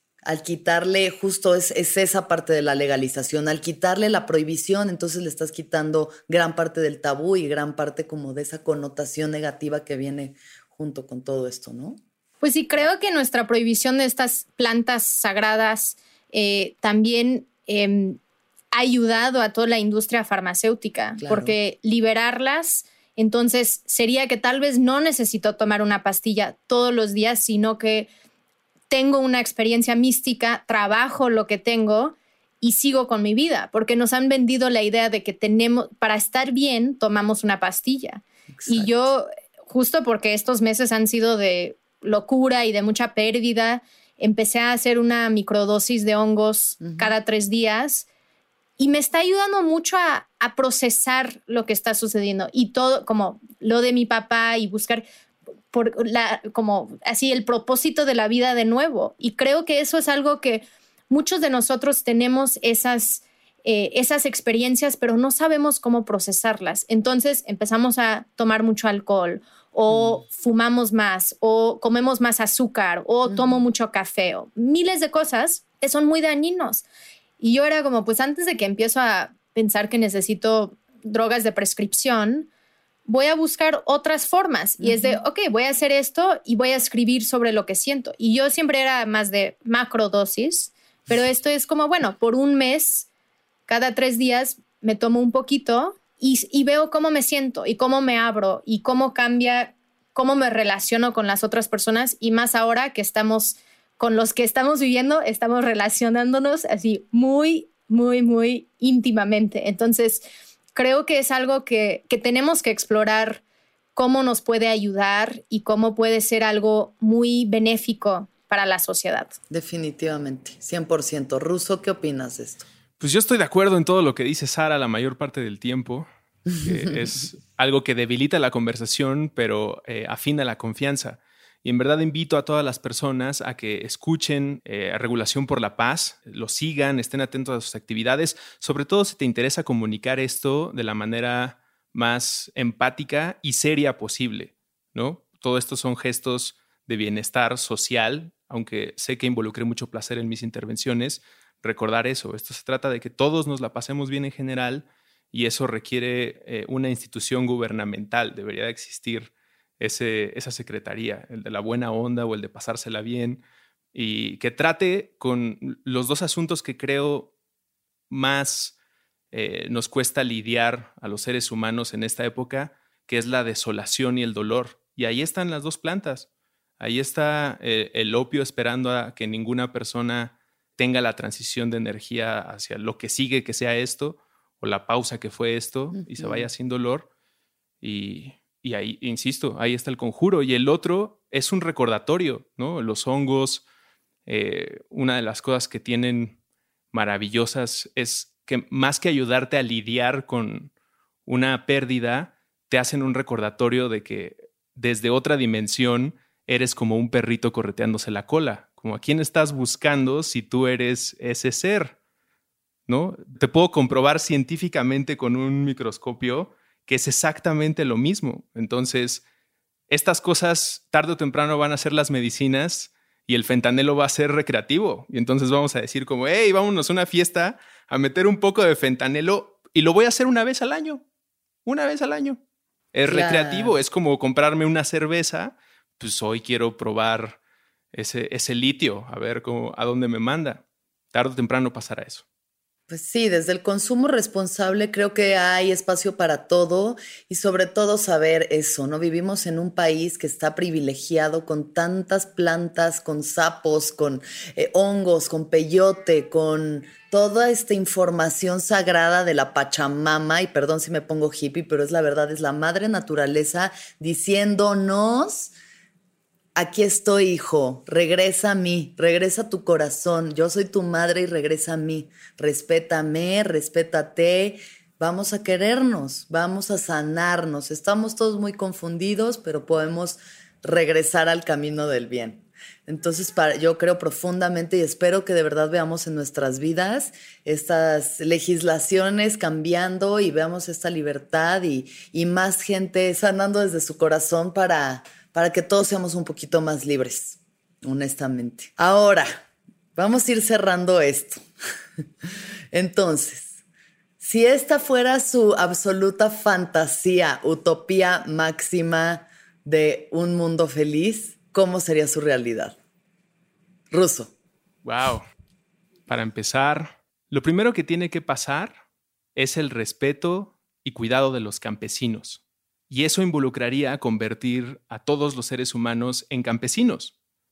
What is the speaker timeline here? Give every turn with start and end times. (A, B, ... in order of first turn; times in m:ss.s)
0:00.2-0:12.0 A
0:12.4-0:18.2 B
0:18.7-0:28.1 B
0:21.2-0:21.6 A
0:28.9-0:48.1 B
0:38.6-0:38.9 A
0:46.8-0:47.1 A
0:48.8-0:55.0 B
0:55.7-1:16.8 B
1:09.9-1:10.2 A
1:13.3-1:13.6 A
1:17.4-1:22.5 B
1:23.1-1:33.1 B
1:24.8-1:25.2 A
1:33.7-1:50.2 B
1:50.8-1:53.4 B
1:54.0-1:59.4 B
1:59.5-2:02.7 A
2:03.0-2:43.4 C
2:43.9-2:47.3 C
2:48.1-2:48.8 C
2:49.3-2:56.3 C
2:56.8-3:07.1 C
3:06.0-3:06.5 A
3:07.8-3:13.6 C
3:14.3-3:16.4 C
3:16.9-3:20.7 C
3:21.3-3:32.0 C
3:32.9-3:39.2 C
3:39.9-3:51.0 C
3:51.6-3:52.4 C
3:52.9-3:57.4 C
3:53.1-3:53.8 A
3:57.9-4:02.2 C
4:02.9-4:25.5 A
4:26.6-4:59.4 A
5:00.0-5:01.4 A
5:02.7-5:03.6 A
5:04.2-5:12.8 A
5:13.9-5:14.3 A
5:14.8-5:15.3 C
5:16.1-5:18.8 C
5:19.4-5:27.1 C